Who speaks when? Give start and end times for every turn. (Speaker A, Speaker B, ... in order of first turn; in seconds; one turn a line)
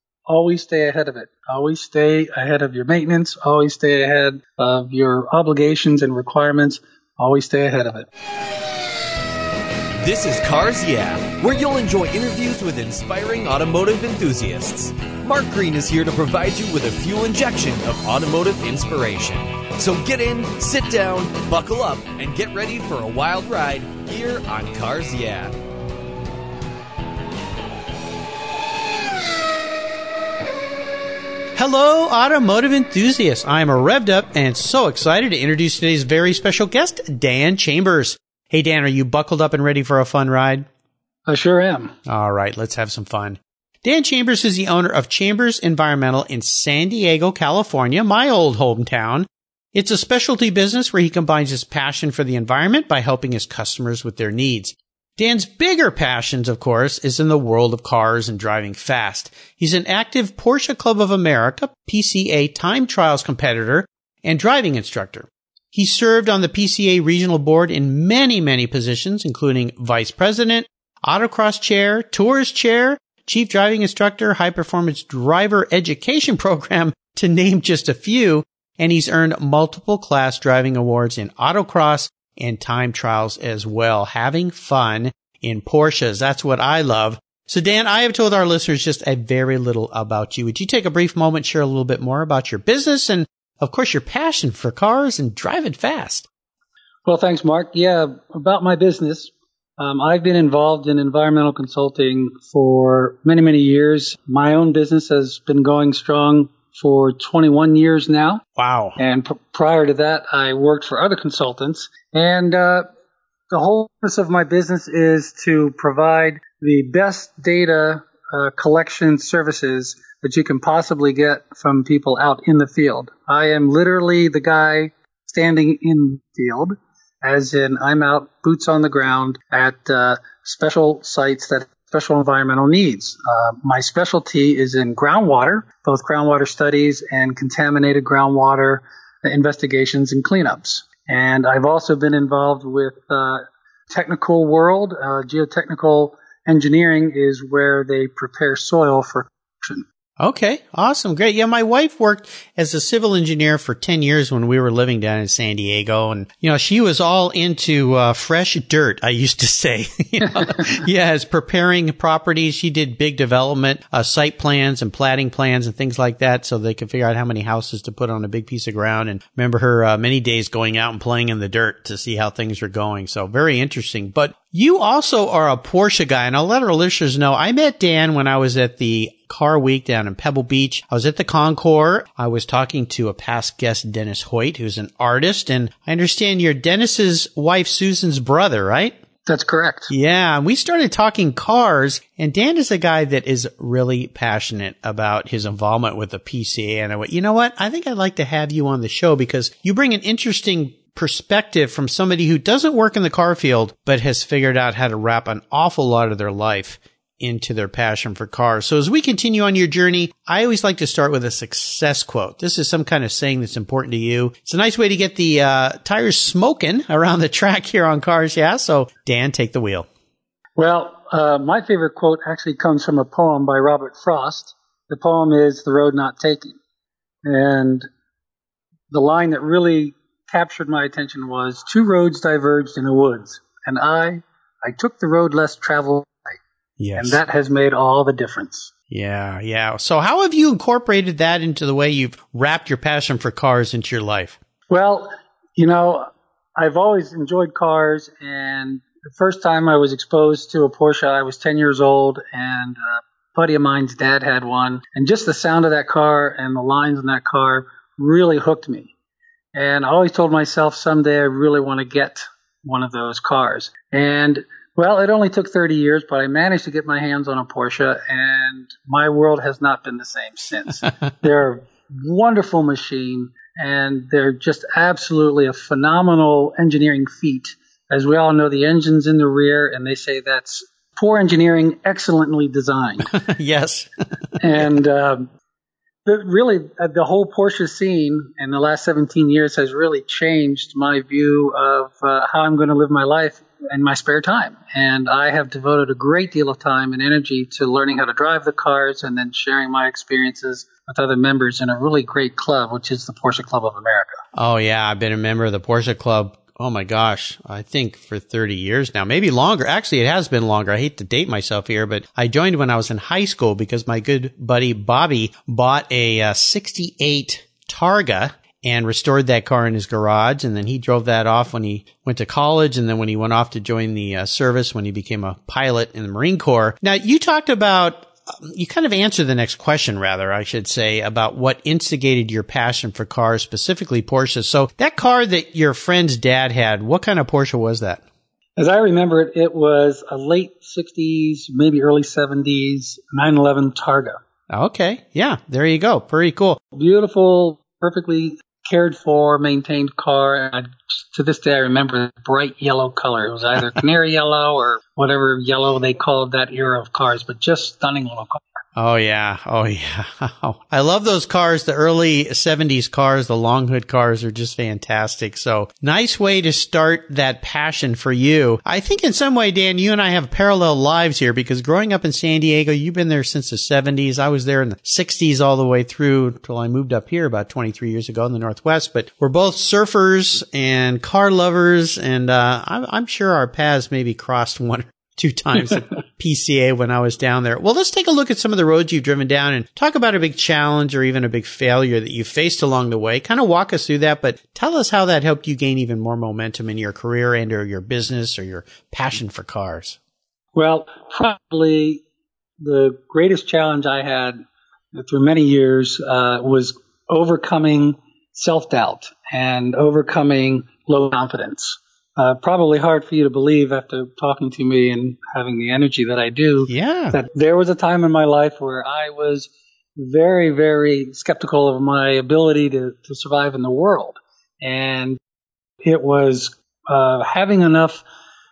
Speaker A: 0.3-8.1
Speaker B: 10.0-25.6
Speaker C: 31.6-40.7
Speaker A: 41.3-41.9
Speaker C: 42.1-96.3
Speaker A: 97.0-108.4
Speaker C: 108.6-109.0
Speaker A: 109.0-112.9
Speaker A: 113.5-149.8
Speaker C: 150.2-189.0
Speaker A: 160.3-160.7
Speaker A: 189.3-189.9
Speaker C: 189.9-219.9
Speaker A: 220.6-226.6
Speaker A: 227.2-227.9
Speaker A: 228.9-236.4
Speaker C: 236.8-237.2
Speaker A: 237.0-238.7
Speaker C: 238.9-244.4
Speaker A: 244.7-258.9
Speaker A: 259.5-283.1
Speaker C: 283.1-283.9
Speaker A: 284.4-285.3
Speaker A: 286.1-304.2
Speaker C: 304.4-338.0
Speaker A: 338.6-344.2
Speaker C: 344.5-346.6
Speaker A: 346.7-358.6
Speaker C: 358.8-400.0
Speaker A: 400.6-402.0
Speaker A: 402.6-404.4
Speaker A: 404.9-425.2
Speaker C: 416.6-417.2
Speaker A: 425.8-428.1